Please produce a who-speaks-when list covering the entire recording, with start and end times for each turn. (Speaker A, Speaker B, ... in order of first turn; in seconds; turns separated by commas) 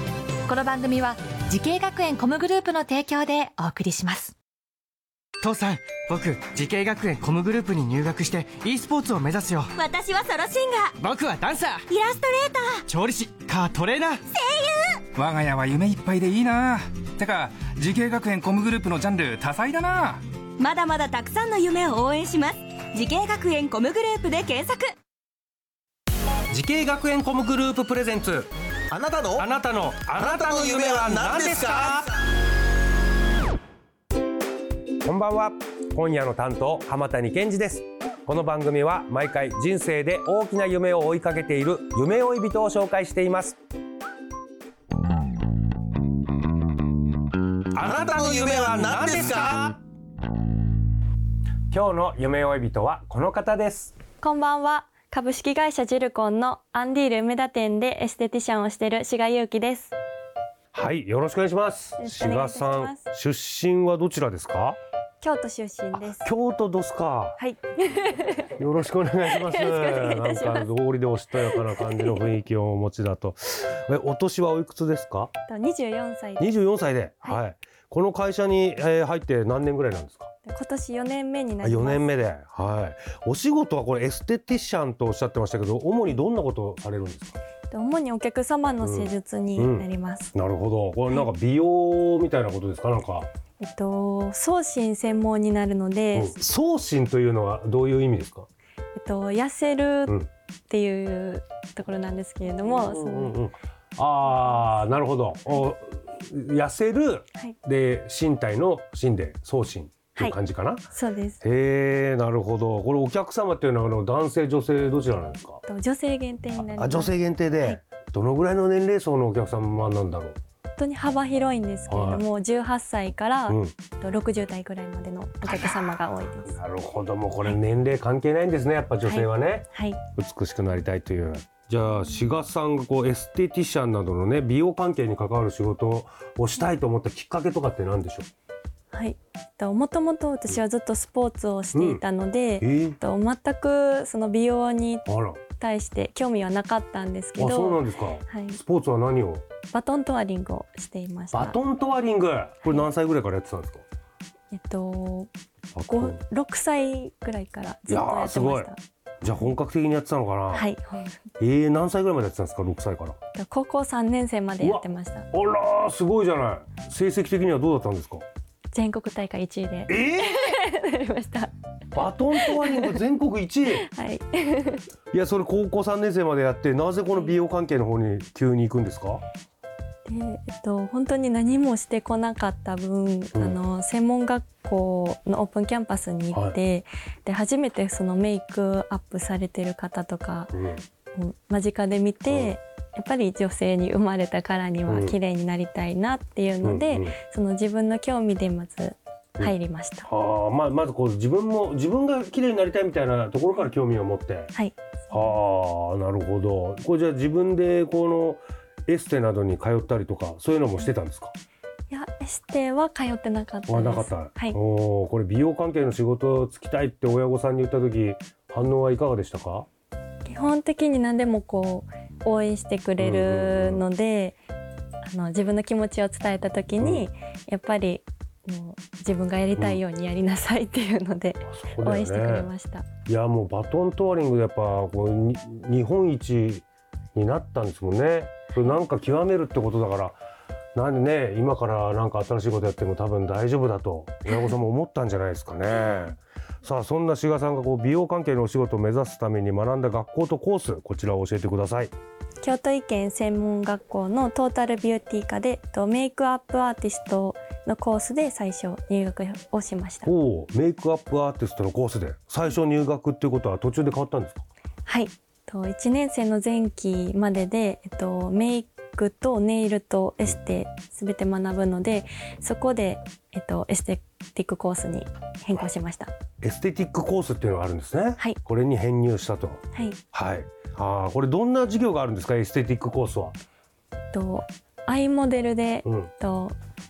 Speaker A: 0.5-4.3, Speaker B: 5.4-9.7, Speaker C: 9.8-10.9, Speaker B: 11.0-11.8, Speaker C: 11.9-12.9, Speaker B: 12.9-14.2, Speaker C: 14.3-15.0, Speaker D: 15.2-20.2, Speaker C: 20.6-24.9, Speaker E: 26.5-28.5, Speaker F: 28.9-29.5, Speaker E: 29.3-32.1, Speaker F: 30.2-32.0, Speaker E: 35.0-43.6, Speaker E: 47.8-49.7, Speaker F: 47.8-49.7, Speaker E: 51.7-53.9, Speaker G: 54.2-59.9, Speaker E: 60.7-64.8, Speaker G: 62.0-63.0, Speaker G: 65.2-66.3, Speaker E: 65.9-67.4, Speaker G: 67.4-68.5, Speaker E: 68.4-75.3, Speaker G: 69.3-70.7, Speaker G: 71.4-72.2, Speaker G: 75.5-76.5, Speaker E: 76.4-80.3, Speaker G: 80.4-82.1, Speaker E: 81.6-87.3, Speaker G: 87.7-90.3, Speaker E: 88.8-93.3, Speaker G: 93.6-96.3, Speaker E: 96.1-98.5, Speaker G: 99.0-100.1, Speaker G: 100.7-103.3, Speaker E: 102.6-110.8, Speaker G: 104.4-104.8, Speaker G: 110.9-111.4, Speaker E: 111.4-115.6, Speaker G: 115.7-117.8, Speaker E: 116.6-120.4, Speaker G: 120.8-126.6, Speaker E: 121.9-122.2, Speaker E: 123.5-123.7, Speaker E: 126.4-138.3, Speaker G: 129.0-130.0, Speaker G: 138.9-145.1, Speaker E: 141.7-142.0, Speaker E: 142.6-143.0, Speaker E: 145.1-145.4, Speaker G: 145.6-148.6, Speaker E: 147.4-149.4, Speaker G: 149.7-151.6, Speaker E: 151.3-153.8, Speaker G: 154.5-155.3, Speaker E: 155.7-156.2, Speaker G: 155.9-158.8, Speaker E: 157.9-158.7, Speaker E: 159.2-160.7, Speaker G: 160.5-161.2, Speaker E: 161.4-163.2, Speaker G: 163.3-165.3, Speaker E: 164.6-168.2, Speaker G: 168.7-171.5, Speaker E: 169.9-170.4, Speaker E: 171.9-173.8, Speaker G: 172.3-173.0, Speaker G: 173.7-174.8, Speaker E: 175.1-179.2, Speaker G: 180.1-190.5, Speaker E: 186.3-186.6, Speaker E: 190.5-190.8, Speaker G: 191.1-200.1, Speaker E: 192.3-192.5, Speaker E: 194.9-195.2, Speaker E: 196.6-197.2, Speaker E: 200.1-204.5, Speaker G: 204.5-205.3, Speaker E: 205.1-211.3, Speaker G: 211.9-214.6, Speaker E: 213.7-219.7, Speaker G: 220.2-224.4, Speaker E: 223.0-223.8, Speaker G: 225.0-232.9, Speaker E: 226.8-227.1, Speaker E: 229.6-229.8, Speaker E: 231.5-232.5, Speaker E: 233.1-240.2, Speaker E: 240.7-251.9, Speaker G: 252.4-260.1, Speaker E: 260.0-264.4, Speaker G: 264.9-276.1, Speaker E: 276.4-279.6, Speaker G: 279.7-280.0, Speaker E: 280.1-283.4, Speaker G: 284.1-286.5, Speaker E: 285.8-286.1